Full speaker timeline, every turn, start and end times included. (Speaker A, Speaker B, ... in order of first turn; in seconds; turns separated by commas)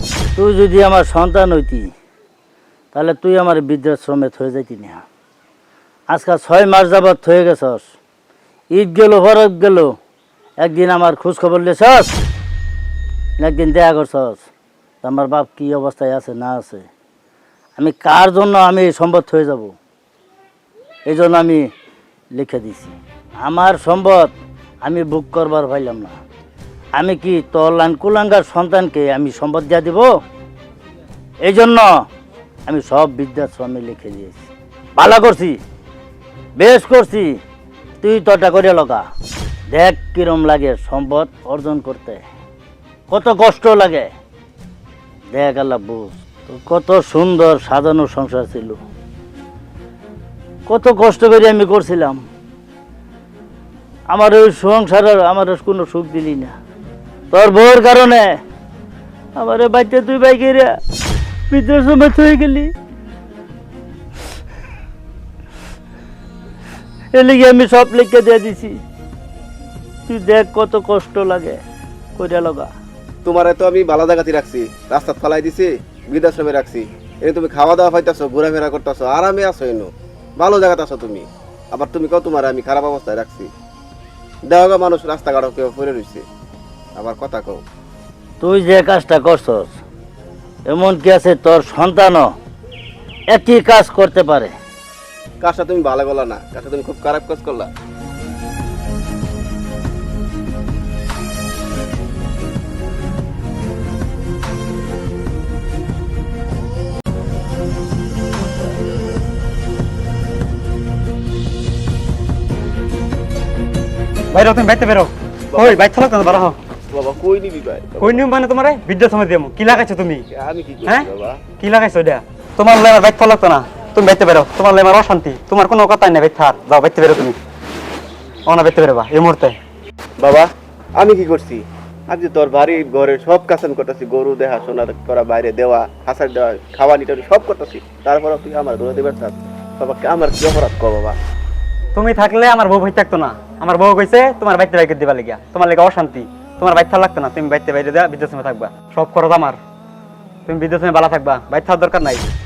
Speaker A: 0.4-1.9, Speaker A: 2.9-5.0, Speaker A: 6.1-7.9, Speaker A: 8.7-10.0, Speaker A: 10.6-12.2, Speaker A: 13.4-14.5, Speaker A: 15.0-16.9, Speaker A: 17.8-19.8, Speaker A: 21.1-21.7, Speaker A: 22.4-26.2, Speaker A: 27.0-30.1, Speaker A: 31.4-31.9, Speaker A: 32.7-35.6, Speaker A: 36.6-37.4, Speaker A: 38.0-39.0, Speaker A: 39.7-42.2, Speaker A: 43.1-44.1, Speaker A: 45.3-48.8, Speaker A: 50.7-52.2, Speaker A: 54.1-56.5, Speaker A: 57.3-58.4, Speaker A: 59.4-60.8, Speaker A: 61.5-62.7, Speaker A: 67.2-68.8, Speaker A: 70.1-71.6, Speaker A: 72.2-72.7, Speaker B: 73.2-83.5, Speaker B: 84.5-86.3, Speaker B: 87.0-87.6, Speaker A: 88.4-89.8, Speaker A: 90.7-92.3, Speaker A: 93.3-94.5, Speaker B: 95.4-97.7, Speaker C: 114.3-116.6, Speaker B: 115.5-115.9, Speaker B: 116.9-118.3, Speaker C: 118.0-120.2, Speaker B: 119.7-121.4, Speaker C: 121.6-127.4, Speaker C: 128.5-129.6, Speaker B: 130.2-141.2, Speaker C: 142.0-149.6, Speaker C: 150.5-152.2